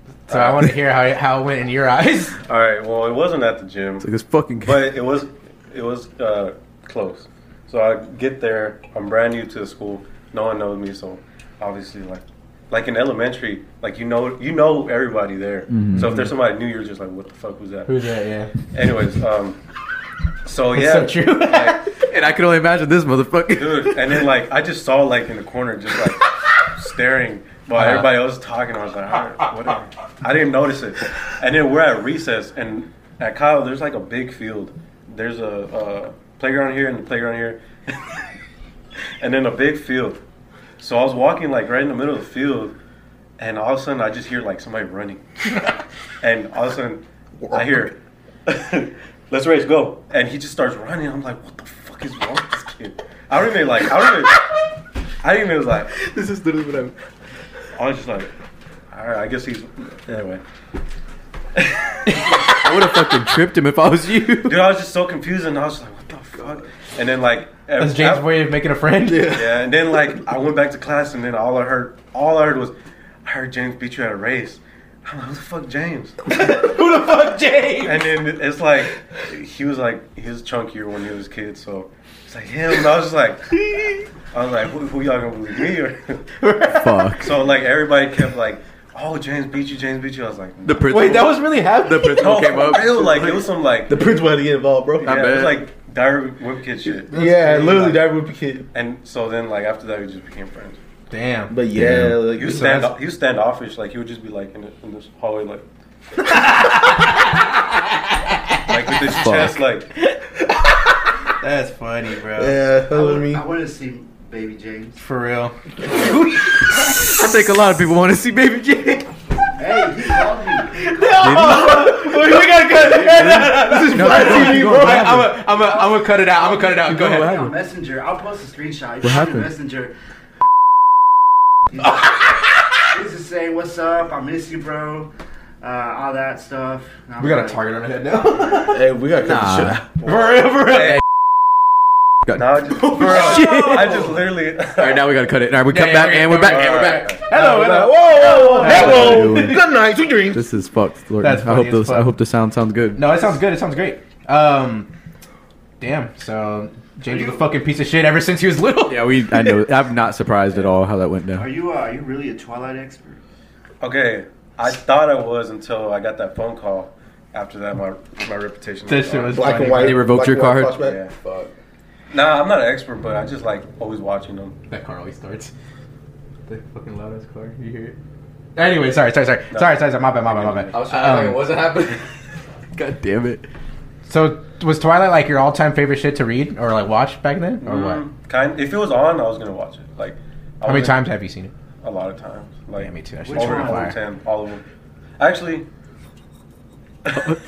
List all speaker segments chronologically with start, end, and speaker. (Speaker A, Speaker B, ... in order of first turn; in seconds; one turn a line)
Speaker A: 0.3-2.4
Speaker B: 0.3-0.7
Speaker B: 2.5-4.1
Speaker C: 4.0-4.9
Speaker B: 4.6-17.9
Speaker C: 15.7-16.2
Speaker A: 17.9-18.5
Speaker B: 18.7-19.6
Speaker B: 20.4-21.9
Speaker A: 20.7-21.9
Speaker C: 22.0-24.2
Speaker B: 23.5-37.9
Speaker C: 27.8-28.1
Speaker B: 39.2-40.2
Speaker B: 40.8-42.8
Speaker B: 43.4-45.2
Speaker B: 46.2-47.9
Speaker D: 47.5-47.8
Speaker B: 48.5-54.5
Speaker B: 55.2-55.9
Speaker C: 55.9-57.0
Speaker B: 57.8-58.3
Speaker B: 58.9-60.4
Speaker B: 61.5-62.5
Speaker C: 62.3-64.7
Speaker B: 64.5-68.5
Speaker A: 67.8-69.4
Speaker D: 69.1-69.4
Speaker B: 69.2-72.7
Speaker B: 73.2-76.2
Speaker A: 76.3-78.1
Speaker B: 77.8-83.7
Speaker B: 84.3-86.2
Speaker A: 86.4-87.2
Speaker C: 86.7-87.3
Speaker B: 87.2-91.3
Speaker C: 90.7-93.2
Speaker A: 90.9-92.4
Speaker B: 92.2-94.0
Speaker D: 92.6-95.4
Speaker C: 95.0-95.7
Speaker B: 95.0-97.1
Speaker D: 97.1-98.7
Speaker A: 97.1-98.0
Speaker B: 98.7-100.8
Speaker A: 101.1-101.5
Speaker D: 101.5-102.8
Speaker C: 101.8-102.2
Speaker B: 102.4-105.7
Speaker A: 102.5-102.9
Speaker A: 106.3-107.1
Speaker B: 108.7-109.9
Speaker C: 109.1-109.6
Speaker A: 111.4-112.6
Speaker D: 112.3-113.4
Speaker E: 112.9-115.0
Speaker A: 115.0-117.2
Speaker C: 116.8-119.1
Speaker E: 119.6-120.9
Speaker A: 120.7-127.5
Speaker C: 121.2-125.4
Speaker E: 125.6-129.9
Speaker C: 126.9-127.5
Speaker C: 129.0-129.5
Speaker E: 131.7-132.1
Speaker E: 132.9-137.6
Speaker A: 137.2-138.8
Speaker D: 138.5-139.8
Speaker C: 139.2-139.8
Speaker B: 140.0-141.0
Speaker A: 140.1-140.9
Speaker C: 142.3-147.1
Speaker B: 142.4-145.2
Speaker A: 142.9-143.9
Speaker A: 145.7-149.6
Speaker B: 146.4-147.2
Speaker D: 147.3-150.4
Speaker C: 148.3-149.6
Speaker C: 150.3-153.1
Speaker A: 151.2-152.1
Speaker A: 152.9-154.9
Speaker A: 155.8-159.6
Speaker E: 157.1-157.5
Speaker C: 158.9-161.5
Speaker E: 161.3-163.2
Speaker B: 163.8-169.5
Speaker A: 168.9-170.1
Speaker D: 169.3-171.0
Speaker C: 169.7-171.5
Speaker B: 170.8-171.1
Speaker B: 172.1-174.6
Speaker A: 174.7-175.5
Speaker A: 176.5-177.9
Speaker A: 178.6-181.5
Speaker B: 179.5-180.8
Speaker C: 180.7-182.1
Speaker C: 182.8-183.5
Speaker A: 184.1-188.0
Speaker B: 187.6-191.1
Speaker A: 190.6-191.5
Speaker B: 191.8-194.6
Speaker A: 192.8-194.0
Speaker E: 193.2-193.9
Speaker B: 195.2-195.7
Speaker B: 197.1-197.3